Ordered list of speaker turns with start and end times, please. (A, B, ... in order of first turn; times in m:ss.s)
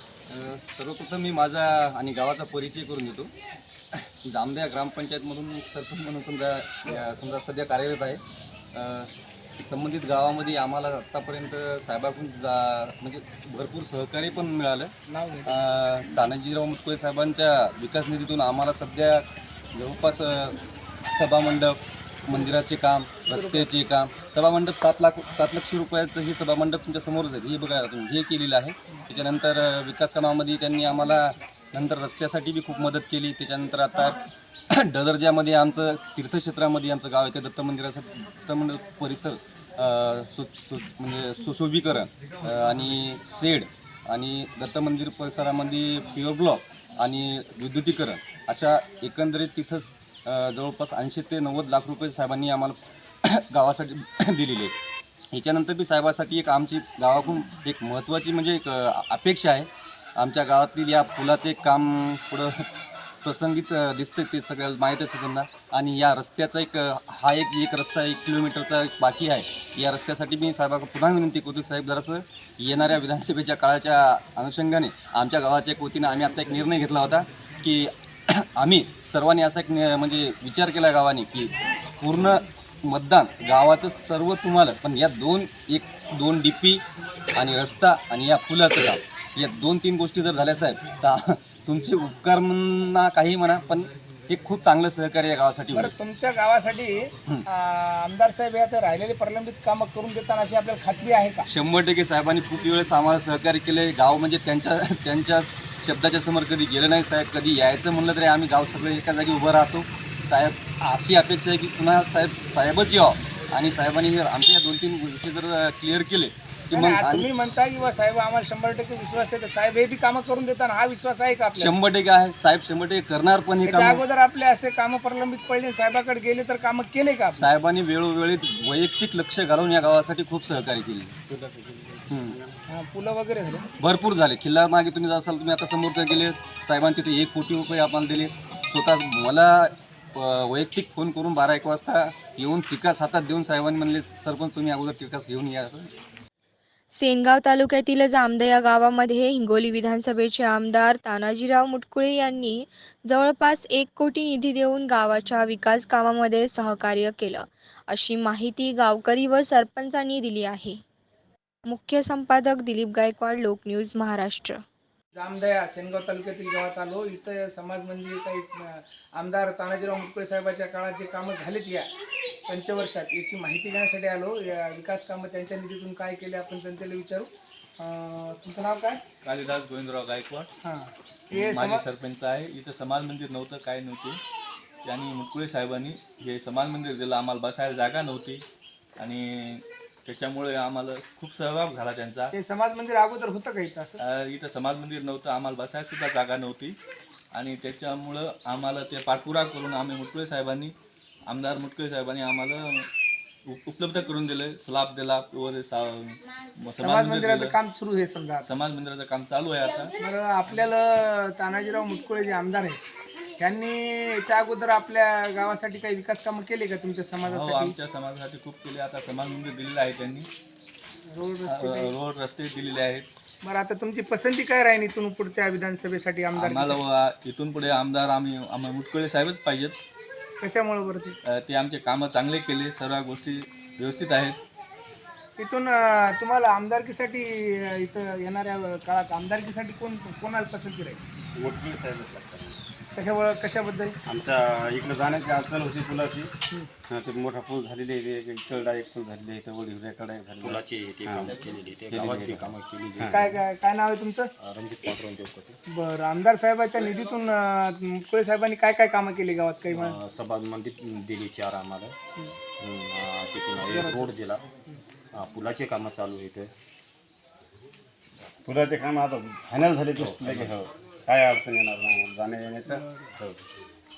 0:00.3-0:03.3 A
0:03.9-0:08.2 A
0:08.7-0:14.9 A
0:15.1-0:15.6 B
0:15.5-0:20.6 A
0:21.1-0:34.2 A
0:23.3-0:23.7 B
0:34.7-0:54.8 A
0:55.3-1:02.7 A
1:03.2-1:26.8 A
1:27.4-1:35.9 A
1:35.7-1:41.5 B
1:41.5-1:57.3 A
1:56.7-2:01.8 B
2:01.6-2:04.0 A
2:03.6-2:07.5 B
2:07.4-2:11.2 A
2:11.3-2:12.6 C
2:12.1-2:12.4 A
2:12.7-2:13.7 B
2:13.8-2:25.9 A
2:27.0-2:40.8 D
2:41.7-2:44.6 D
2:45.2-2:51.9 B
2:52.5-2:59.0 B
2:59.2-3:00.5 E
3:00.6-3:01.8 B
3:01.3-3:04.2 E
3:04.8-3:08.4 E
3:09.0-3:12.3 E
3:12.3-3:14.0 B
3:14.0-3:16.8 E
3:17.3-3:20.8 E
3:21.3-3:22.9 E
3:23.4-3:27.6 E
3:26.8-3:28.5 B
3:28.4-3:29.9 E
3:30.0-3:32.8 B
3:33.4-3:37.8 B
3:37.2-3:40.3 E
3:41.1-3:41.9 B
3:41.5-3:43.1 E
3:43.4-3:46.8 B
3:46.3-3:49.8 E
3:50.4-3:51.2 B
3:51.2-3:54.4 E
3:55.4-4:01.0 B
4:01.4-4:02.6 C
4:03.0-4:04.0 B
4:04.1-4:06.3 C
4:06.9-4:11.4 C
4:10.4-4:13.4 F
4:11.9-4:13.3 C
4:13.1-4:14.3 B
4:14.4-4:15.6 F
4:15.7-4:20.0 B
4:19.7-4:22.0 F
4:22.6-4:24.4 F
4:23.6-4:24.1 B
4:25.1-4:26.5 F
4:28.4-4:33.3 C
4:30.0-4:30.5 F
4:32.7-4:33.1 B